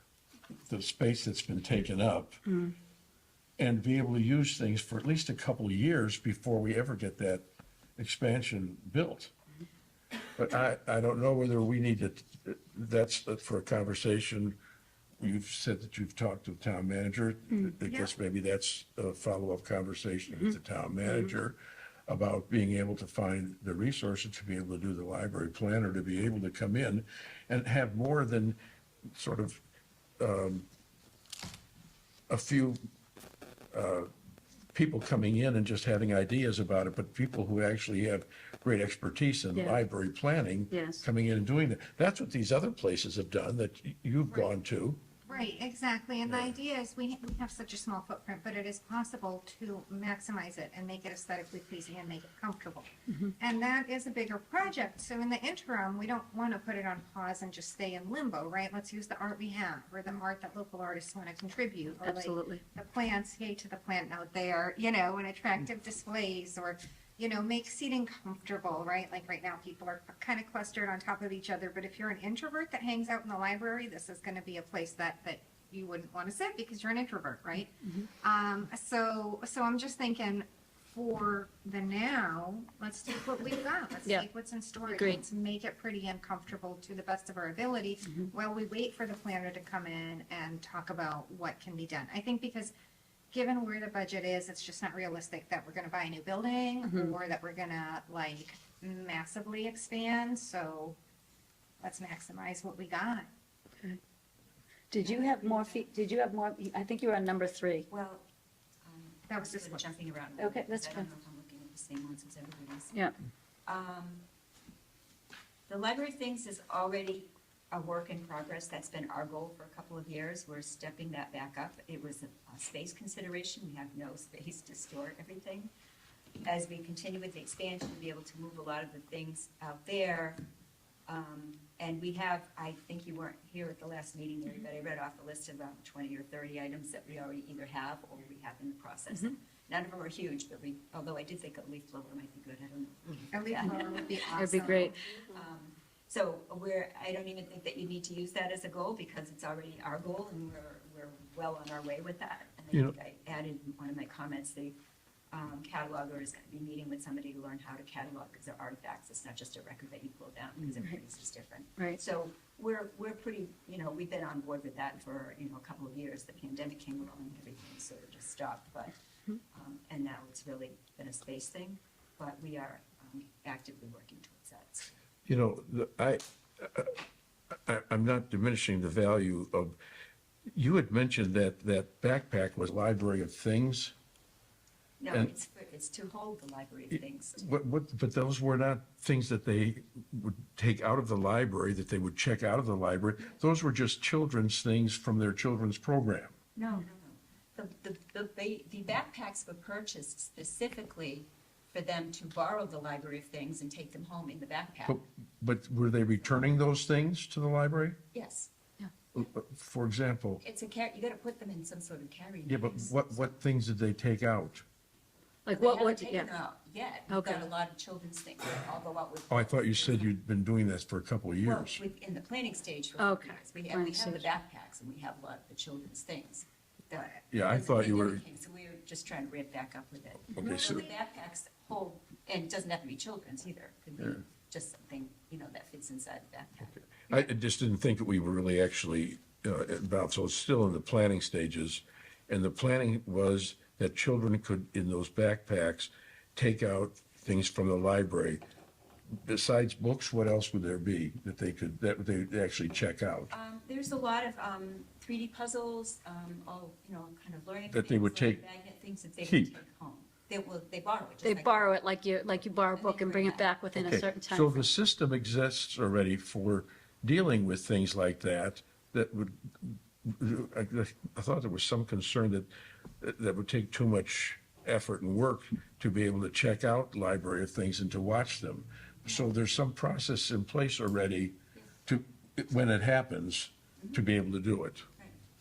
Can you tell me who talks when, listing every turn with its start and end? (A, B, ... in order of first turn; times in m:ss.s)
0:00.7-0:02.4 A
0:02.5-0:02.7 B
0:03.6-0:07.4 A
0:08.0-0:09.3 A
0:10.4-0:14.6 A
0:15.2-0:21.6 A
0:17.8-0:18.1 C
0:22.1-0:28.6 A
0:29.1-0:29.6 A
0:30.2-0:30.7 A
0:32.3-0:32.8 A
0:33.7-0:34.1 A
0:34.7-0:45.0 A
0:40.7-0:41.0 B
0:44.3-0:44.5 C
0:45.2-0:52.9 C
0:46.2-0:46.5 A
0:53.4-1:32.7 C
1:02.0-1:02.6 B
1:17.8-1:18.1 B
1:24.9-1:25.2 B
1:33.3-1:41.0 C
1:36.8-1:37.1 B
1:41.8-1:43.3 C
1:44.9-1:47.9 B
1:45.0-1:45.9 D
1:47.9-1:48.3 D
1:48.8-1:52.9 D
1:49.3-1:49.8 C
1:50.4-1:51.1 B
1:53.7-1:54.2 D
1:55.7-2:05.7 D
2:06.4-2:10.4 D
2:11.1-2:34.8 D
2:23.3-2:25.0 C
2:24.4-2:25.1 B
2:35.3-2:48.9 D
2:49.5-2:54.9 D
2:55.3-2:56.9 A
2:57.6-2:59.8 A
3:00.5-3:03.9 A
3:05.0-3:07.4 D
3:06.9-3:16.3 A
3:16.6-3:25.0 D
3:24.9-3:28.0 A
3:28.1-3:28.5 D
3:29.1-3:30.4 A
3:30.4-3:33.3 D
3:32.5-3:34.6 A
3:35.4-3:36.3 B
3:35.5-3:40.1 D
3:37.1-3:37.4 B
3:39.3-3:41.8 A
3:41.4-3:56.9 D
3:43.0-3:44.3 B
3:47.3-3:48.2 A
3:50.3-3:50.9 A
3:57.0-4:08.4 A
4:09.2-4:13.3 A
4:13.3-4:21.8 D
4:17.7-4:18.4 A
4:19.2-4:19.6 A
4:21.2-4:24.7 B
4:22.7-4:23.5 D
4:23.7-4:32.5 A
4:33.0-4:41.3 A
4:41.8-4:44.8 A